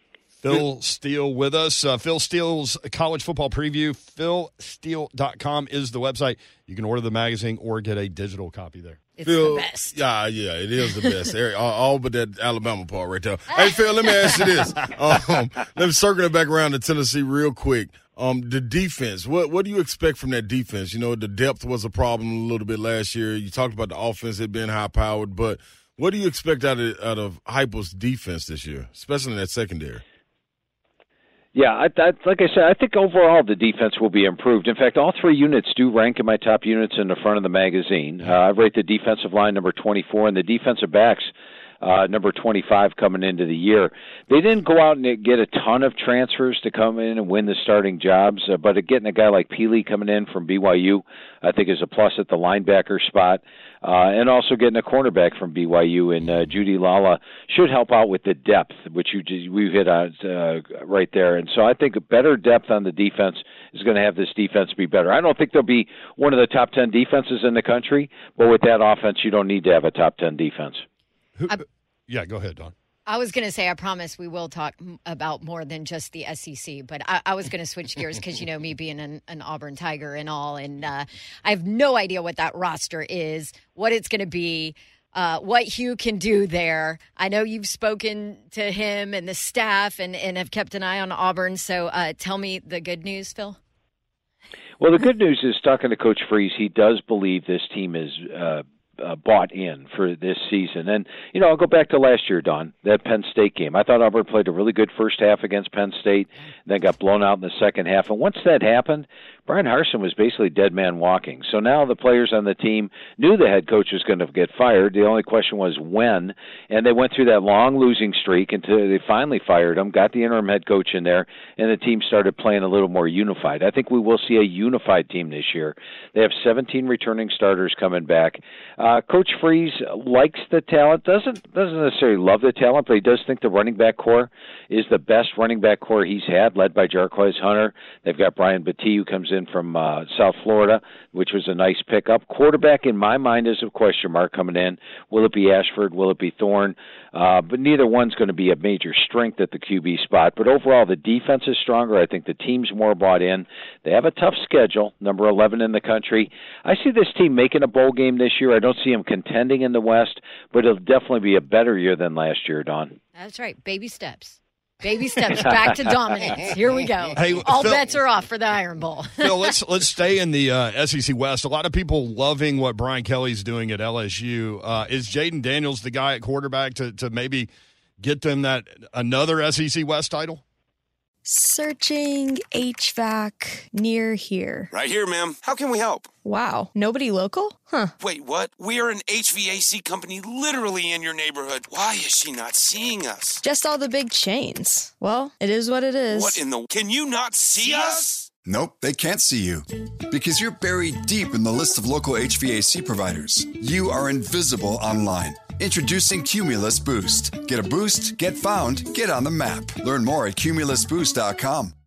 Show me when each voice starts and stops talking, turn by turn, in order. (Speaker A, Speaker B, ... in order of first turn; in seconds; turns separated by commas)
Speaker A: 0.4-9.0, Speaker B: 9.2-10.0, Speaker C: 9.2-30.0, Speaker D: 31.5-70.8, Speaker A: 71.4-72.7, Speaker B: 73.0-93.6, Speaker D: 94.8-163.0, Speaker B: 163.1-169.5, Speaker A: 167.2-167.9, Speaker A: 169.2-177.5, Speaker A: 178.0-180.4, Speaker E: 181.2-184.7, Speaker F: 184.7-186.1, Speaker E: 186.2-187.9, Speaker F: 188.0-193.4, Speaker E: 193.4-196.4, Speaker F: 196.1-198.3, Speaker G: 198.4-211.8